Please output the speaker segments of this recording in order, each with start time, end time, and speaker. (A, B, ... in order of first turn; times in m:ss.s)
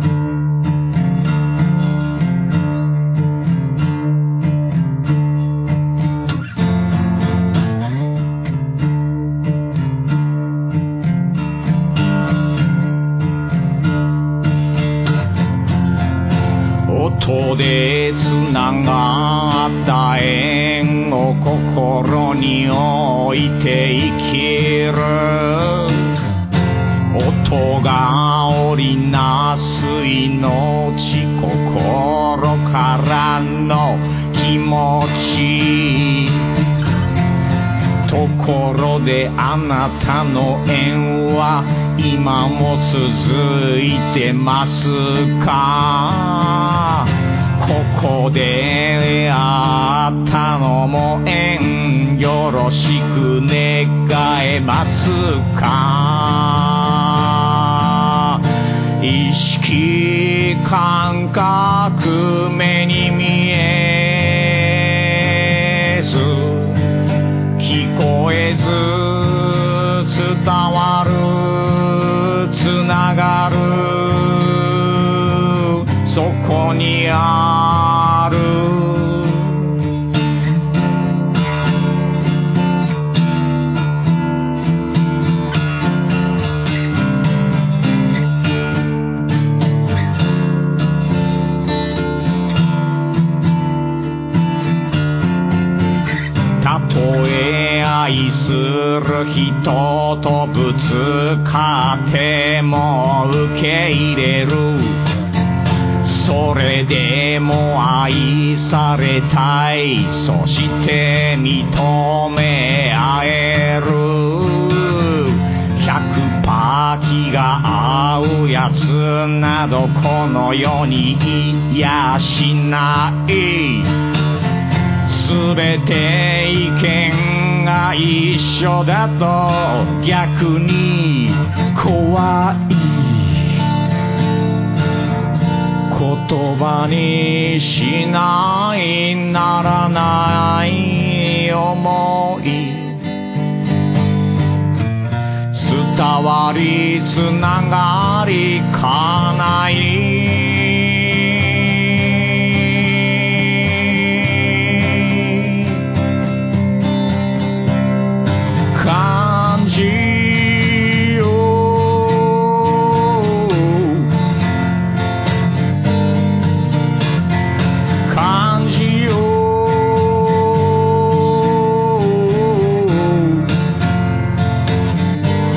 0:16.8-0:26.2 A
0:27.1-0:36.5 A
0:38.0-1:19.8 A
1:36.6-1:45.1 A
1:46.0-2:04.0 A
2:05.0-2:13.7 A
2:15.9-2:23.1 A
2:25.5-2:35.8 A
2:38.7-2:44.1 A
2:48.0-2:53.5 A